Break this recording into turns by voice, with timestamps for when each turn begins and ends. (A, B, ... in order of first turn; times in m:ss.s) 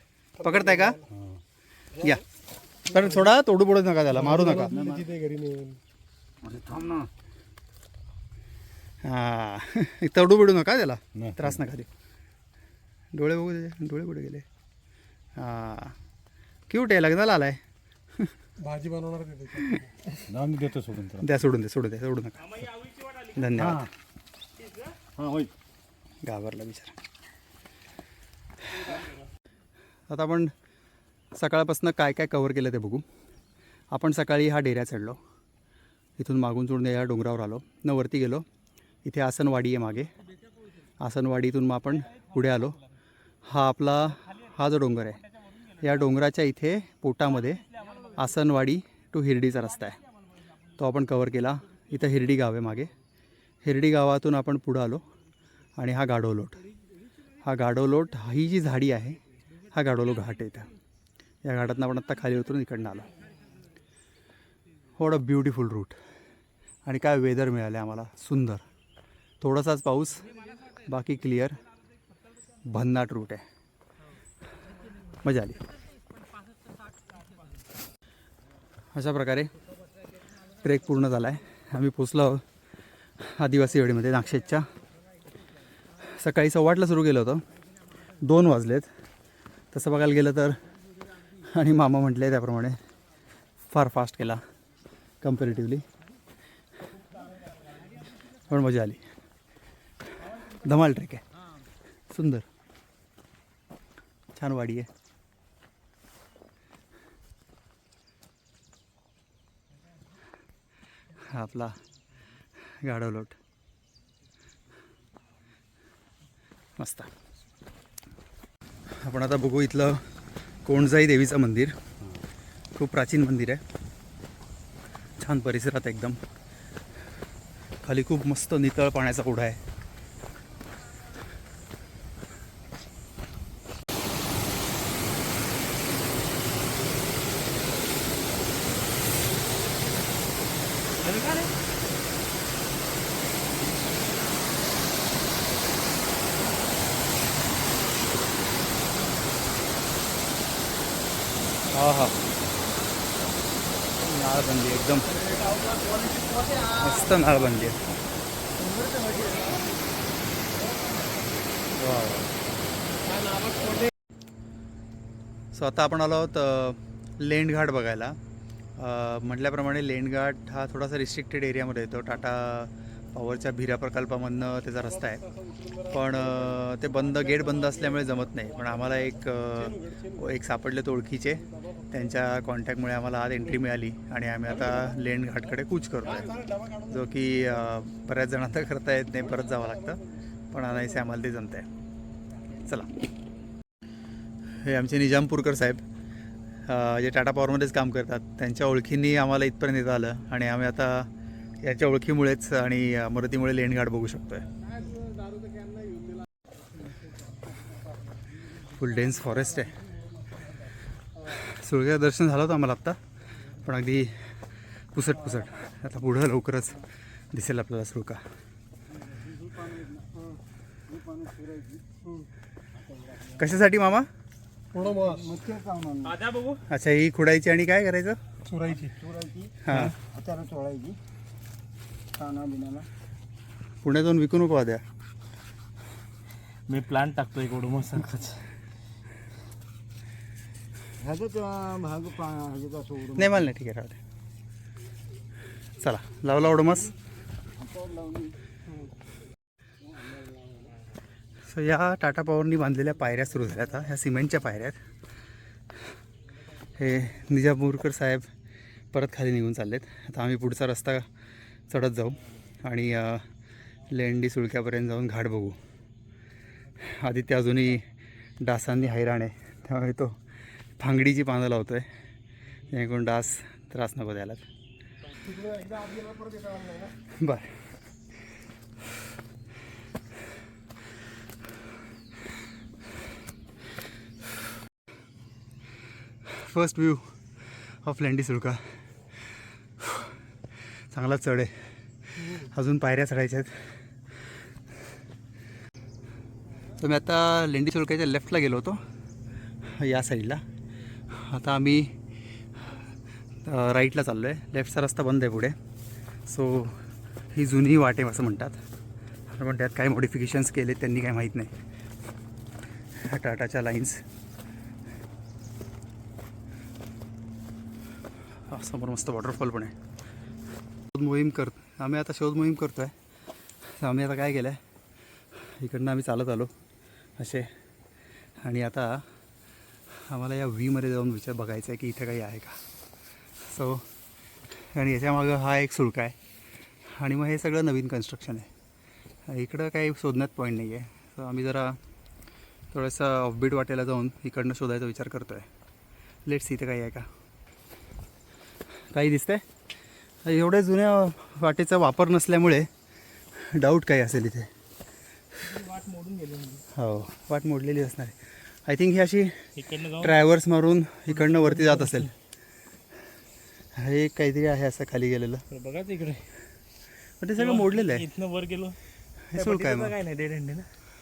0:00.4-0:01.1 A
0:00.4-0:01.0 B
0:01.1-0:01.4 C
0:02.0-0:02.2 A
0:02.9-0:04.7 B
0:02.9-0:03.3 A
0:04.1-0:05.8 A
0:04.5-0:05.1 C
0:06.4-0:07.1 C
0:09.0-0:11.9 B
0:11.2-0:11.6 C
0:13.1-0:14.5 B
0:15.4-0:15.9 B
0:16.7-0:17.6 B
0:18.6-0:20.0 A
0:20.3-0:21.3 C
0:21.2-0:22.6 B
0:22.4-0:23.6 D
0:23.4-0:23.9 B
0:23.6-0:23.9 C
0:24.6-0:25.0 D
0:25.2-0:25.5 C
0:26.2-0:27.0 B
0:28.8-0:29.2 D
0:30.1-0:30.5 B
0:31.4-0:33.0 B
0:33.9-0:35.2 B
0:36.2-0:38.5 B
0:39.0-0:40.1 B
0:41.0-0:42.8 B
0:42.0-0:42.3 D
0:43.5-0:45.2 B
0:44.1-0:46.0 D
0:45.8-0:47.6 B
0:47.3-0:48.3 D
0:48.2-0:50.0 B
0:50.8-0:52.9 B
0:53.6-0:55.0 B
0:55.8-0:56.6 B
0:57.4-0:59.2 B
0:59.7-1:00.7 B
1:01.4-1:03.1 B
1:05.0-1:06.0 B
1:06.8-1:08.6 B
1:09.4-1:11.6 B
1:12.6-1:13.4 B
1:15.2-1:15.6 B
1:18.9-1:19.5 B
1:20.6-1:22.4 B
1:23.2-1:24.7 B
1:26.0-1:27.4 B
1:28.2-1:28.9 B
1:29.7-1:30.6 B
1:31.4-1:32.8 B
1:33.7-1:34.4 B
1:35.2-1:35.8 B
1:38.5-1:39.1 B
1:40.5-1:41.2 B
1:42.1-1:42.5 B
1:44.4-1:44.9 B
1:51.2-1:51.8 B
1:52.8-1:53.4 B
1:56.8-1:57.1 B
1:59.0-2:00.0 B
2:00.7-2:01.8 B
2:02.8-2:03.6 B
2:05.2-2:06.2 B
2:07.8-2:09.6 B
2:21.1-2:21.5 D
2:31.7-2:32.2 B
2:34.0-2:35.1 B
2:35.2-2:36.7 A
2:36.8-2:37.8 B
2:38.6-2:39.6 E
2:38.7-2:39.6 A
2:41.8-2:42.3 B
2:43.1-2:43.8 A
2:45.5-2:48.2 B
2:48.8-2:55.2 B
2:54.7-3:00.4 A
2:55.9-3:10.0 B
3:01.4-3:02.2 A
3:04.5-3:05.0 A
3:06.0-3:07.1 A
3:09.2-3:11.1 A
3:10.5-3:11.7 B
3:12.6-3:13.0 B
3:14.6-3:15.8 B
3:16.7-3:21.1 B
3:21.6-3:24.4 B
3:24.6-3:25.8 A
3:28.8-3:29.8 B
3:31.3-3:33.0 B
3:33.6-3:34.1 B
3:34.9-3:36.8 B
3:37.3-3:38.2 B
3:39.0-3:40.1 E
3:40.9-3:41.9 E
3:42.8-3:43.6 E
3:43.4-3:44.1 B
3:44.7-3:45.4 A
3:44.8-3:46.2 E
3:46.0-3:46.6 D
3:46.7-3:48.2 B
3:48.5-3:49.0 A
3:48.7-3:51.0 E
3:49.6-3:49.9 B
3:52.2-3:52.9 E
3:53.8-3:54.8 B
3:56.7-3:58.4 D
4:01.0-4:03.4 E
4:03.2-4:04.0 B
4:05.8-4:06.9 B
4:07.6-4:08.3 E
4:09.9-4:10.7 E
4:11.5-4:14.8 B
4:16.8-4:18.3 B
4:18.9-4:21.1 B
4:21.7-4:23.2 B
4:23.9-4:25.6 B
4:26.8-4:27.9 B
4:28.4-4:30.2 B
4:30.8-4:31.9 B
4:32.7-4:34.4 B
4:35.2-4:37.0 A
4:37.2-4:37.5 B
4:46.3-4:47.1 B
4:47.7-4:48.6 B
4:49.8-4:50.1 B
4:50.9-4:51.6 B
4:52.2-4:53.6 B
4:56.8-4:58.8 B
4:59.6-5:00.4 B
5:01.1-5:01.9 B
5:03.4-5:05.6 B
5:06.3-5:06.8 B
5:07.3-5:08.6 B
5:09.3-5:11.5 B
5:13.0-5:14.0 B
5:18.5-5:19.7 B
5:20.9-5:22.9 B
5:23.8-5:24.6 B
5:25.6-5:26.5 B
5:27.2-5:27.5 B
5:28.4-5:29.0 B
5:30.1-5:32.6 B
5:33.4-5:33.8 B
5:34.7-5:36.2 B
5:36.9-5:38.5 B
5:39.3-5:41.8 B
5:42.7-5:45.5 B
5:46.2-5:47.1 B
5:48.9-5:49.4 B
5:50.2-5:52.7 B
5:53.4-5:54.5 B
5:55.4-5:56.6 D
5:56.7-5:59.4 B
5:59.6-6:00.2 D
6:00.0-6:02.1 B
6:01.1-6:02.1 D
6:03.8-6:05.4 B
6:05.5-6:06.3 D
6:07.2-6:08.0 B
6:07.4-6:08.8 D
6:09.3-6:09.9 B
6:09.3-6:10.7 D